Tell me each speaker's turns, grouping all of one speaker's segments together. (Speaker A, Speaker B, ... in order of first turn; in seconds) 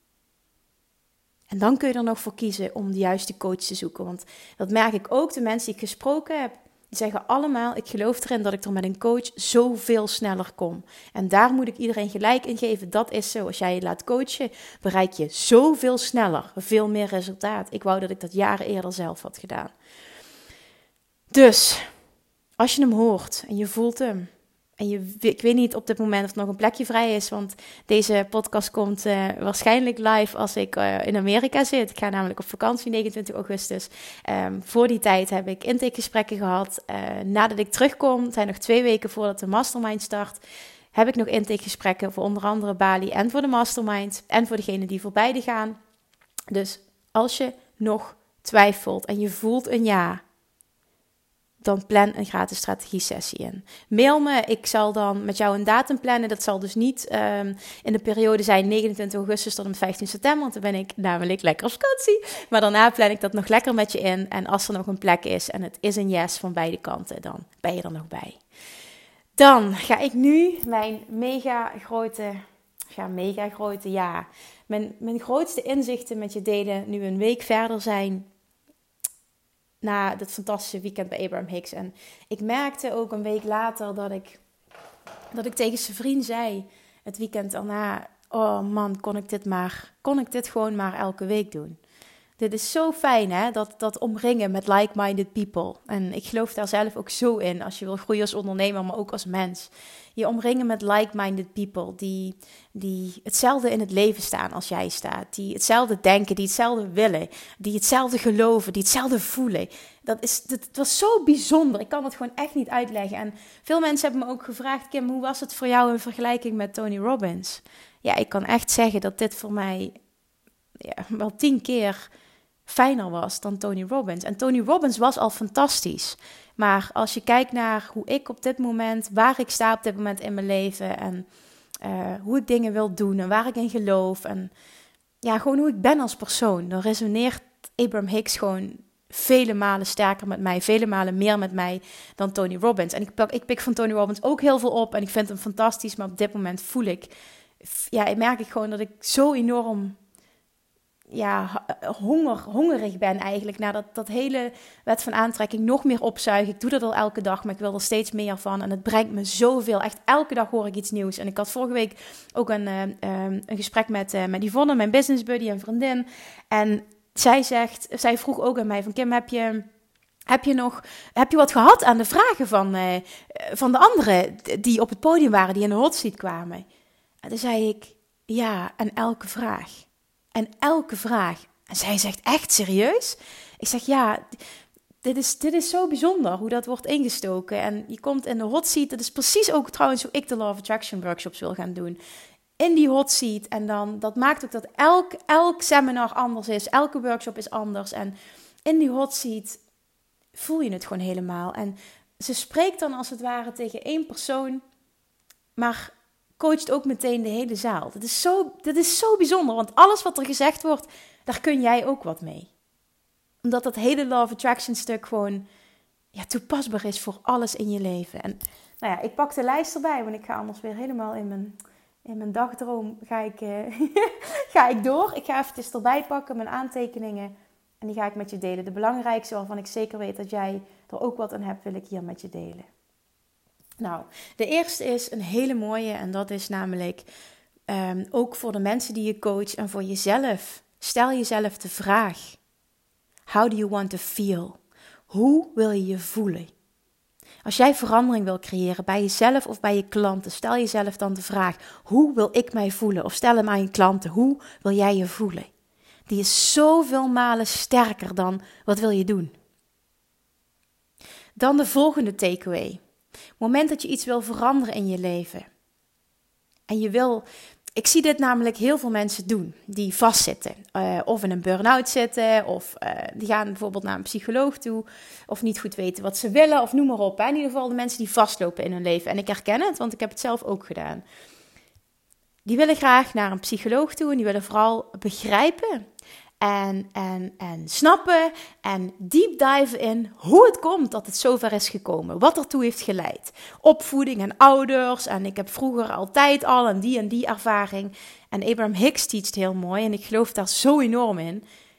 Speaker A: 1.5-19.7, 21.3-21.9, 22.6-40.4, 40.9-45.8, 46.5-50.2, 51.6-68.4, 69.4-78.2, 79.8-84.4, 85.3-91.8, 92.4-120.0, 120.8-122.1, 122.7-131.3, 131.8-134.5, 135.2-147.1, 147.6-150.0, 151.1-169.7, 170.3-176.6, 177.2-184.3, 185.0-192.0, 192.6-199.6, 200.3-204.6, 205.6-212.5, 213.4-215.4, 216.1-232.7, 233.8-237.1, 237.7-242.4, 243.3-244.6, 245.1-246.5, 247.4-255.5, 256.1-259.3, 261.4-262.8, 263.4-265.5, 266.7-267.2, 267.8-281.0, 282.4-285.8, 286.4-301.4